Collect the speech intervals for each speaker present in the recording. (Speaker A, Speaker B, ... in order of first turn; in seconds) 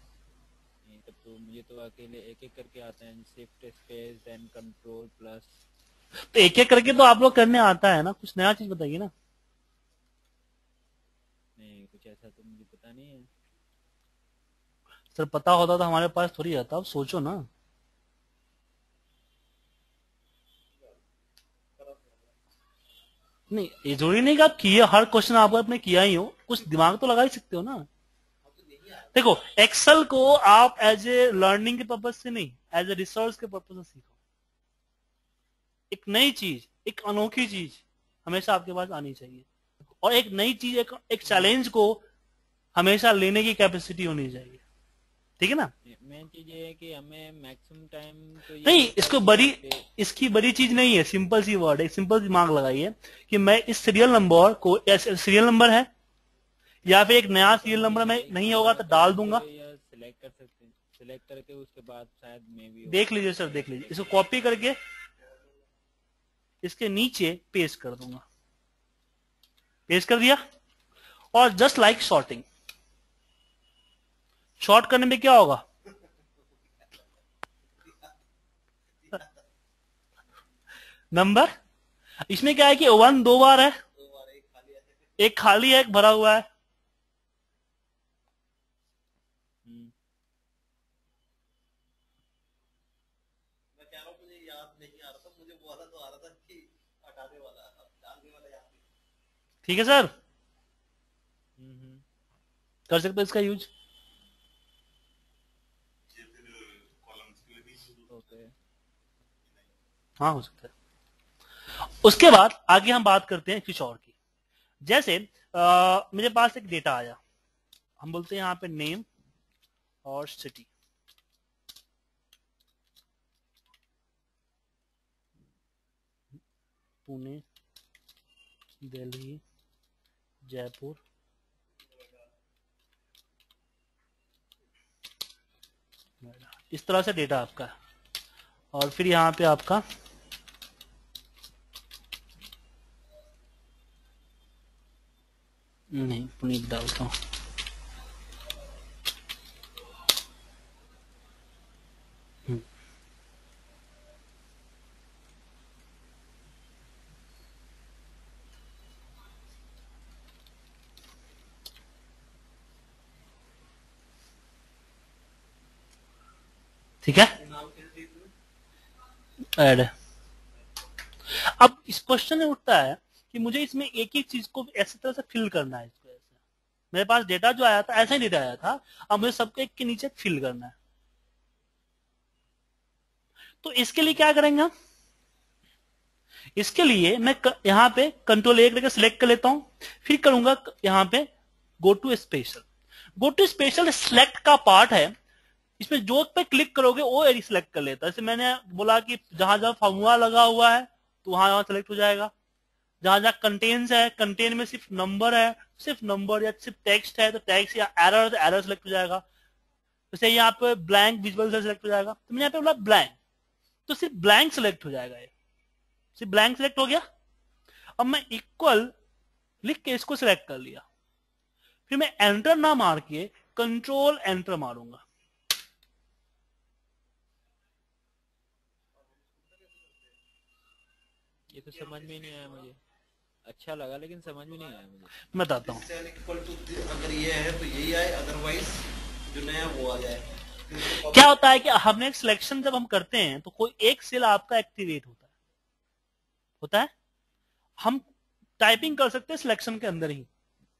Speaker A: 0.8-5.6, 11.6-13.3, 45.8-49.8, 56.9-64.2, 89.6-89.9, 101.6-102.0, 108.1-108.5, 231.5-232.8, 233.4-235.3
Speaker B: 6.3-9.1, 15.2-17.5, 23.5-27.9, 29.1-34.1, 35.9-39.5, 40.0-42.0, 42.7-44.6, 45.4-45.7, 48.6-55.9, 56.9-59.4, 62.9-64.8, 66.6-68.2, 69.9-70.4, 71.3-72.4, 74.6-75.6, 81.1-81.5, 82.3-83.8, 85.2-86.5, 99.6-100.1, 102.9-103.7, 110.2-110.7, 112.0-114.1, 114.8-117.2, 118.0-119.0, 120.0-120.7, 127.0-127.4, 128.8-129.4, 130.4-131.0, 136.2-137.7, 138.7-139.8, 145.9-147.1, 167.1-167.3, 169.6-169.9, 171.3-176.3, 176.9-180.7, 183.6-184.7, 186.6-191.3, 191.8-192.7, 193.2-195.1, 195.8-202.3, 203.0-209.2, 210.1-213.2, 213.9-215.3, 216.2-217.0, 218.0-218.9, 219.6-220.8, 221.9-225.0, 235.3-235.8, 240.9-245.3, 246.6-246.9, 248.6-250.3
Speaker C: 21.8-22.4, 28.4-29.4, 77.8-78.1, 79.0-79.4, 83.9-85.5, 93.7-98.9, 131.7-132.3, 167.3-168.3, 228.9-230.2, 231.5-232.7, 234.4-234.8, 235.6-241.3